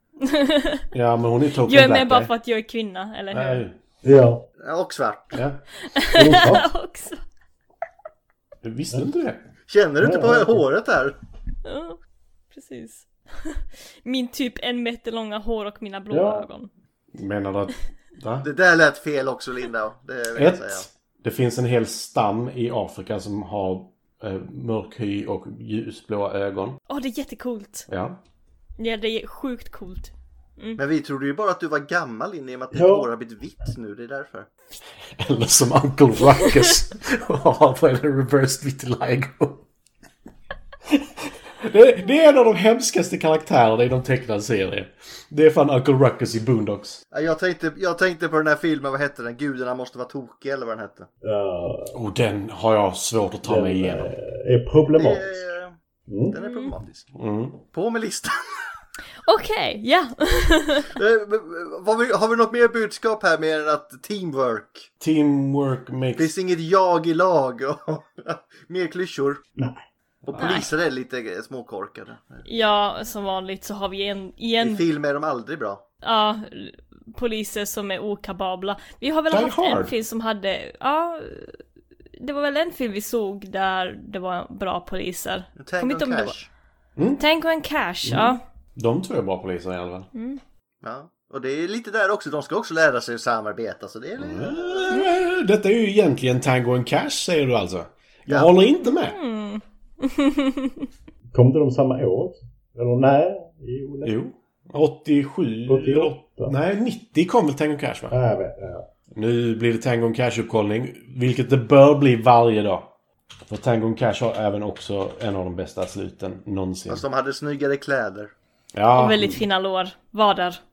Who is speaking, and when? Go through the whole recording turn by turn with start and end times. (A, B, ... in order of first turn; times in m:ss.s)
0:00.2-0:00.9 A
0:00.9-0:02.3 B
0:01.6-0:03.6 A
0:03.3-0:03.8 B
0:04.0-0:04.4 C
0:04.6-0:05.4 D
0:05.3-0:05.6 B
0:05.9-0:07.2 A
0:06.1-0:06.6 C
0:08.6-0:09.4 B
0:09.7-0:11.2 D
0:10.0-0:10.6 C
0:11.6-0:12.0 A
0:12.5-0:16.7 A
0:16.1-0:16.4 C
0:17.1-0:18.5 B
0:18.4-0:20.9 D
0:20.3-0:26.8 B
0:26.9-0:27.9 A
0:27.9-0:28.2 B
0:28.8-0:30.8 A
0:30.8-0:34.5 D
0:32.7-0:33.1 C
0:35.2-0:39.6 B
0:41.6-0:47.0 B
0:47.1-0:51.1 D
0:51.2-0:52.0 C
0:51.9-0:54.1 B
0:53.4-0:55.4 C
0:55.0-0:55.7 D
0:56.1-0:56.3 C
0:56.3-0:57.1 D
0:56.3-0:56.7 A
0:57.1-0:57.6 B
0:57.7-0:58.7 D
0:59.2-1:00.9 A
1:00.9-1:04.9 D
1:05.0-1:06.3 B
1:06.2-1:09.4 D
1:09.6-1:09.8 C
1:10.2-1:12.4 D
1:10.3-1:10.6 B
1:10.4-1:10.7 A
1:12.4-1:14.8 A
1:14.6-1:15.8 D
1:16.0-1:21.6 A
1:19.3-1:19.9 B
1:22.2-1:26.3 A
1:25.6-1:26.5 D
1:27.0-1:27.2 B
1:27.2-1:28.4 A
1:28.0-1:30.1 B
1:30.1-1:30.4 A
1:30.8-1:35.0 D
1:34.2-1:39.2 B
1:38.3-1:38.5 D
1:38.8-1:40.9 A
1:41.3-1:44.1 C
1:44.0-1:48.2 B
1:45.7-1:46.5 C
1:48.1-1:48.9 C
1:49.1-1:52.9 B
1:53.5-1:57.0 B
1:56.9-1:58.3 D
1:58.7-1:59.4 B
1:59.0-2:00.6 A